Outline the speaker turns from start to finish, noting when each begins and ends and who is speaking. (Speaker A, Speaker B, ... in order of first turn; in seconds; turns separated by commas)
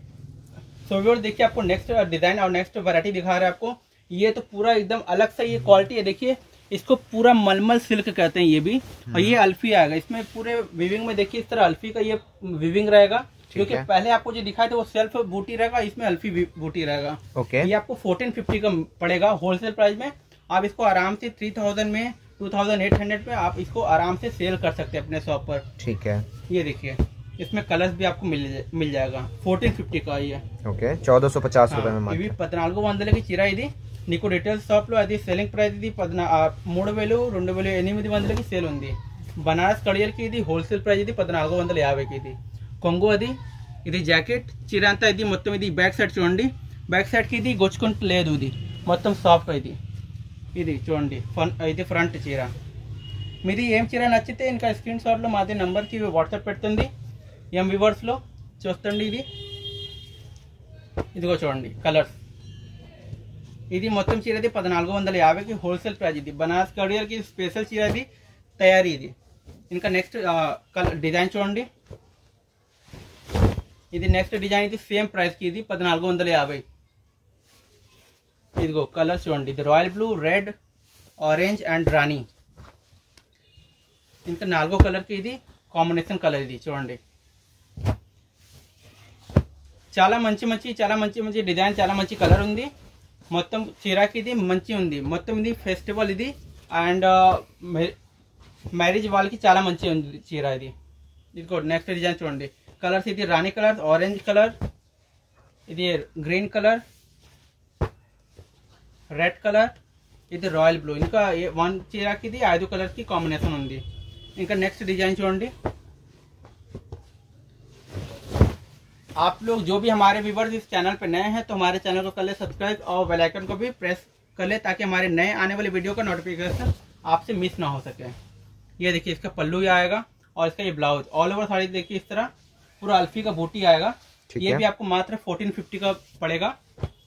Speaker A: 0.8-25.6, Speaker B: 9.1-9.4, Speaker B: 13.5-13.8, Speaker B: 17.3-17.7, Speaker B: 25.8-26.3, Speaker A: 26.5-30.4, Speaker B: 30.6-32.3, Speaker A: 31.7-49.8, Speaker A: 50.5-52.5, Speaker A: 53.4-56.9, Speaker A: 57.5-59.3, Speaker A: 61.1-62.1, Speaker A: 63.7-68.1, Speaker A: 68.6-69.1, Speaker A: 69.7-71.7, Speaker A: 73.9-76.6, Speaker A: 78.6-80.5, Speaker A: 81.2-82.2, Speaker A: 84.2-87.0, Speaker A: 89.9-92.7, Speaker A: 93.3-97.9, Speaker A: 98.7-100.7, Speaker A: 101.3-104.5, Speaker A: 105.7-106.8, Speaker A: 109.1-109.7, Speaker A: 110.3-113.8, Speaker A: 114.4-115.5, Speaker A: 119.2-128.1, Speaker A: 128.8-132.3, Speaker A: 132.8-136.6, Speaker B: 134.3-134.6